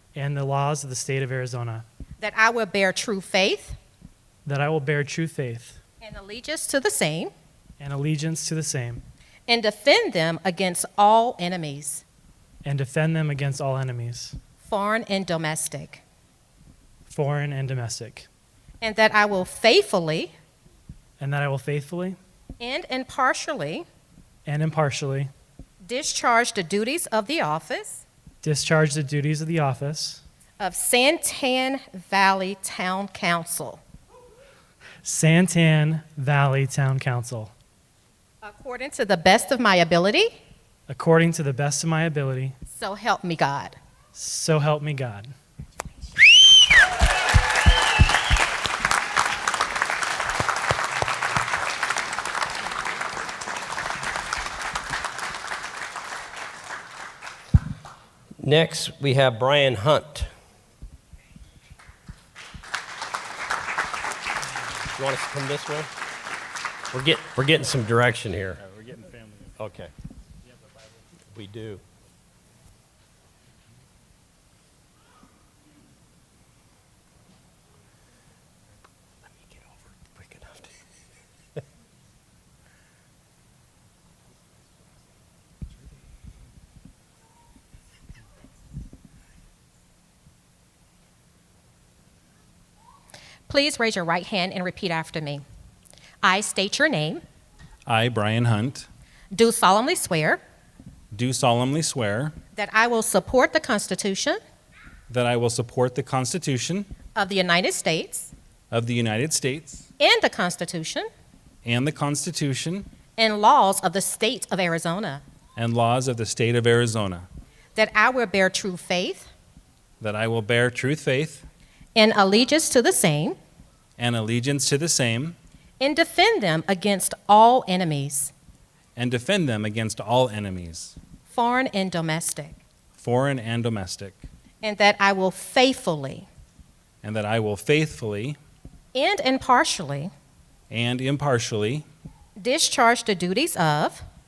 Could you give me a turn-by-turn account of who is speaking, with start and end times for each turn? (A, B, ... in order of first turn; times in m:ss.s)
0:00.2-0:01.9 A
0:02.2-0:03.8 B
0:04.5-0:05.8 A
0:06.0-0:07.3 B
0:07.8-0:09.0 A
0:09.5-0:12.0 B
0:12.6-0:14.4 A
0:14.6-0:16.0 B
0:17.1-0:18.3 A
0:18.8-0:20.3 B
0:21.2-0:22.2 A
0:22.6-0:23.9 B
0:24.5-0:25.3 A
0:25.8-0:28.0 B
0:28.4-0:30.2 A
0:30.6-0:33.8 B
0:35.0-0:37.5 A
0:38.4-0:40.4 B
0:40.9-0:42.6 A
0:42.7-0:43.8 B
0:44.1-0:45.3 A
0:58.4-1:00.3 C
1:05.0-1:05.9 C
1:06.9-1:08.6 C
1:08.6-1:09.6 D
1:09.6-1:09.9 C
1:11.3-1:11.8 C
1:19.3-1:20.8 C
1:33.5-1:35.4 B
1:36.2-1:37.2 B
1:37.9-1:38.9 D
1:39.3-1:40.4 B
1:41.1-1:42.4 D
1:42.6-1:44.4 B
1:45.1-1:46.9 D
1:47.2-1:48.3 B
1:48.7-1:49.9 D
1:50.0-1:51.1 B
1:51.6-1:52.9 D
1:53.2-1:55.2 B
1:55.6-1:57.3 D
1:57.8-1:59.3 B
2:00.0-2:01.5 D
2:02.0-2:03.4 B
2:04.0-2:05.4 D
2:05.8-2:08.3 B
2:09.0-2:11.0 D
2:11.3-2:12.6 B
2:12.9-2:14.2 D
2:14.6-2:16.3 B
2:17.0-2:18.4 D
2:18.9-2:20.1 B
2:20.7-2:21.9 D
2:22.4-2:24.0 B